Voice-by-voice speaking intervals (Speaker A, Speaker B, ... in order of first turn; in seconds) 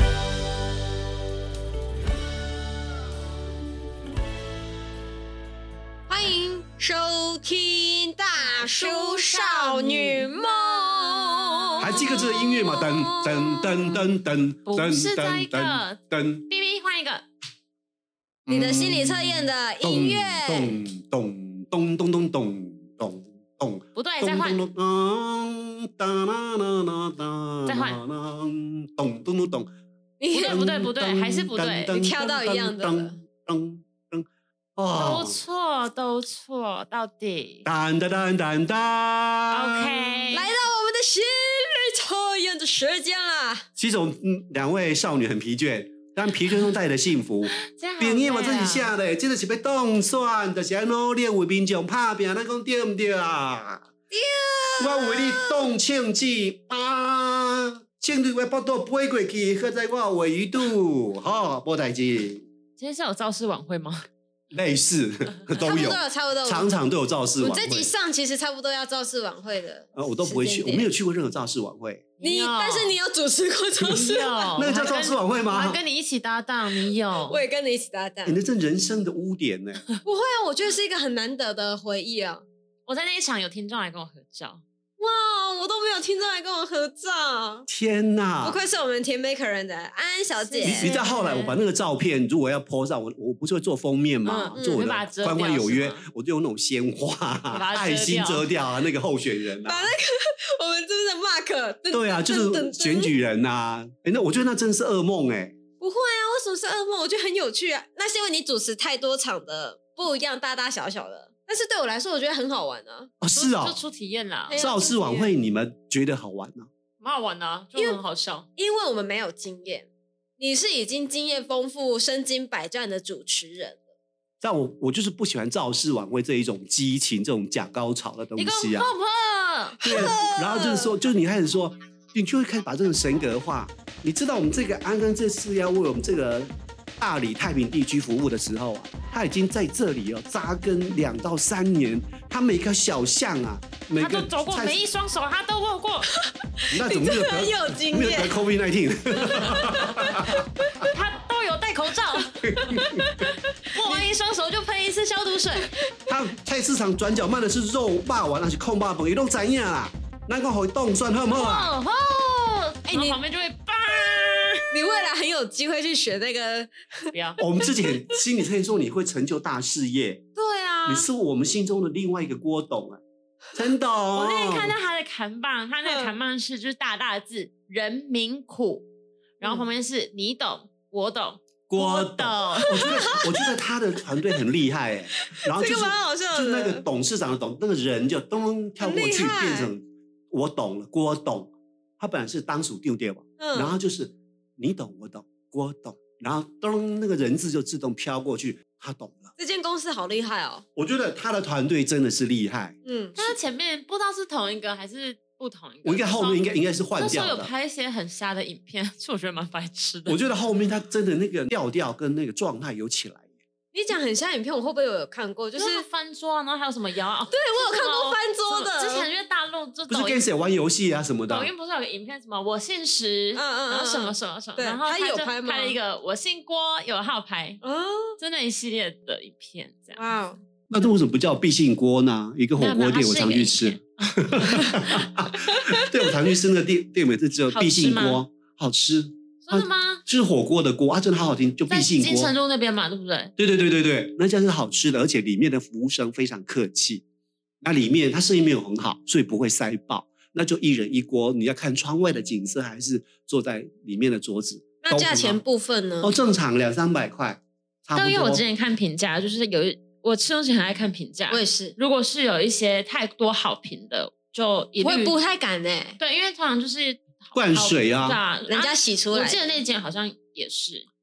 Speaker A: 6.1-14.0, 18.5-20.8, 30.2-30.6, 31.9-33.2, 40.3-43.6, 54.1-55.7, 65.6-66.7, 67.4-70.9, 72.2-74.6, 77.2-78.4, 80.0-82.4, 85.0-87.7, 88.4-91.0, 99.6-103.1, 105.8-113.1, 114.5-115.3, 117.8-118.0, 118.5-123.8, 129.8-130.9, 146.6-148.4, 149.3-150.5, 152.7-153.3, 162.9-163.2, 164.7-168.1, 170.3-171.1, 175.8-176.1, 182.7-183.3, 185.3-186.8, 188.8-189.7, 193.4-193.8, 199.4-200.6, 202.8-203.4, 213.7-215.8, 217.3-219.1, 223.3-225.8, 227.6-228.2, 229.9-230.4, 254.8-256.1, 261.3-261.8, 264.8-266.0, 268.5-269.4
Speaker B: 8.4-10.3, 11.2-12.1, 14.7-17.2, 23.9-24.6, 27.6-28.0, 30.3-31.9, 34.9-37.6, 39.5-40.5, 47.5-48.9, 62.8-64.0, 72.2-73.0, 73.8-77.4, 82.9-84.6, 90.4-91.6, 94.2-96.0, 97.5-98.5, 113.3-114.6, 117.0-118.5, 128.4-129.8, 144.0-146.1, 150.9-152.8, 153.7-155.7, 161.3-165.1, 167.1-167.4, 174.1-178.8, 179.4-182.9, 203.2-210.2, 215.6-220.3, 221.3-227.6, 228.2-230.0, 232.6-235.1, 237.5-238.2, 239.4-240.0, 241.7-243.3, 257.9-265.1, 266.0-270.9
Speaker C: 11.8-16.5, 18.4-29.7, 30.4-34.2, 34.8-35.4, 37.6-40.0, 43.8-53.8, 54.8-62.4, 64.5-67.9, 69.9-72.0, 74.5-75.8, 78.2-79.8, 87.7-88.6, 90.6-99.9, 101.9-105.5, 113.2-113.8, 114.5-116.7, 124.4-128.9, 129.8-144.8, 146.7-150.4, 152.4-153.3, 156.1-161.7, 167.4-170.2, 170.8-173.0, 173.5-174.8, 181.7-199.3, 200.8-202.8, 205.8-207.5, 210.1-213.2, 219.9-221.5, 230.7-242.3, 243.4-247.0, 247.6-255.4, 256.0-258.4, 267.3-268.2